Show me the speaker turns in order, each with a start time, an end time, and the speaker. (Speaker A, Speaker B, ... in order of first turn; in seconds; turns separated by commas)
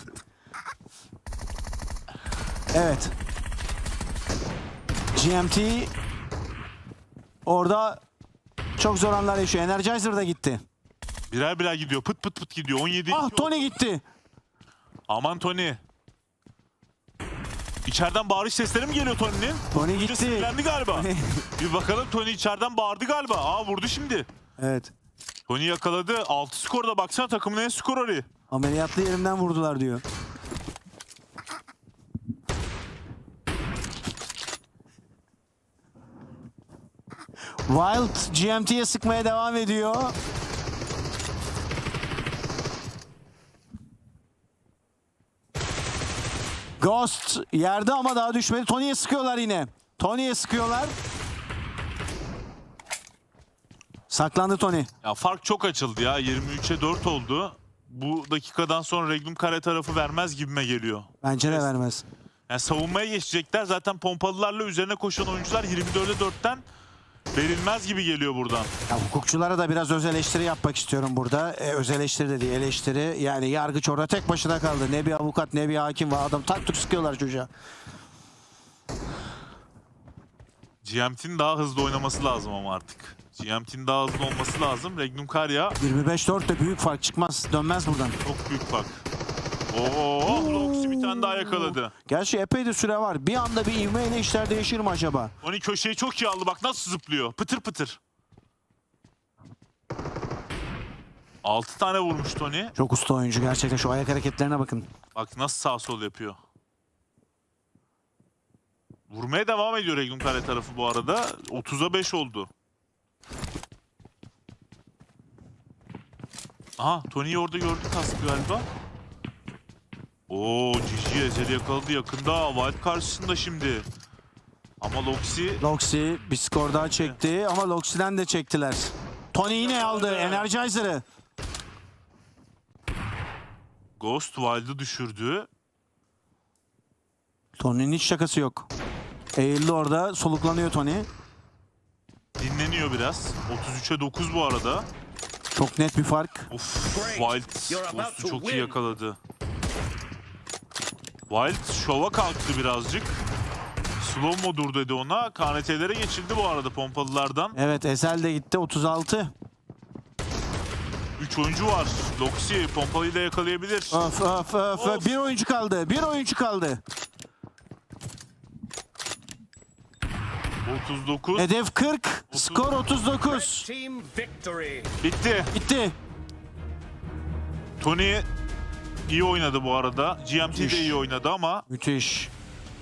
Speaker A: 2.7-3.1, Speaker A: 5.1-5.9, Speaker A: 7.5-8.0, Speaker A: 8.8-10.6, Speaker B: 11.3-13.7, Speaker A: 13.1-14.0, Speaker B: 15.1-15.8, Speaker B: 17.9-24.3, Speaker A: 19.7-21.4, Speaker A: 24.6-24.9, Speaker B: 25.5-28.2, Speaker A: 28.5-30.0, Speaker A: 37.7-40.1, Speaker A: 46.8-50.9, Speaker A: 54.1-54.9, Speaker B: 55.0-61.7, Speaker A: 61.2-62.0, Speaker B: 62.5-66.6, Speaker B: 67.3-68.7, Speaker A: 68.9-77.5, Speaker B: 80.8-85.8, Speaker A: 85.8-88.2, Speaker B: 88.2-89.0, Speaker B: 89.7-91.9, Speaker A: 90.2-95.3, Speaker B: 95.4-98.0, Speaker B: 101.4-102.7, Speaker A: 102.8-104.9, Speaker B: 105.1-106.4, Speaker B: 109.1-112.5, Speaker B: 116.8-118.7, Speaker B: 120.3-123.9, Speaker B: 124.8-125.6, Speaker A: 125.6-131.0, Speaker B: 129.5-130.5, Speaker B: 134.0-135.5, Speaker A: 137.6-138.7, Speaker A: 139.3-141.1, Speaker B: 142.4-144.9, Speaker A: 145.5-146.5, Speaker B: 146.5-149.2, Speaker C: 146.9-148.7, Speaker B: 151.3-153.2, Speaker B: 154.0-157.6, Speaker A: 157.5-159.3, Speaker B: 161.2-164.0, Speaker A: 163.9-166.8, Speaker B: 164.7-165.2, Speaker B: 170.6-171.5, Speaker A: 171.3-173.7, Speaker B: 172.3-172.7, Speaker C: 173.5-174.9, Speaker B: 175.0-175.5, Speaker A: 175.5-175.9, Speaker B: 177.8-178.2, Speaker B: 179.1-181.7, Speaker A: 180.5-181.0, Speaker A: 181.7-182.3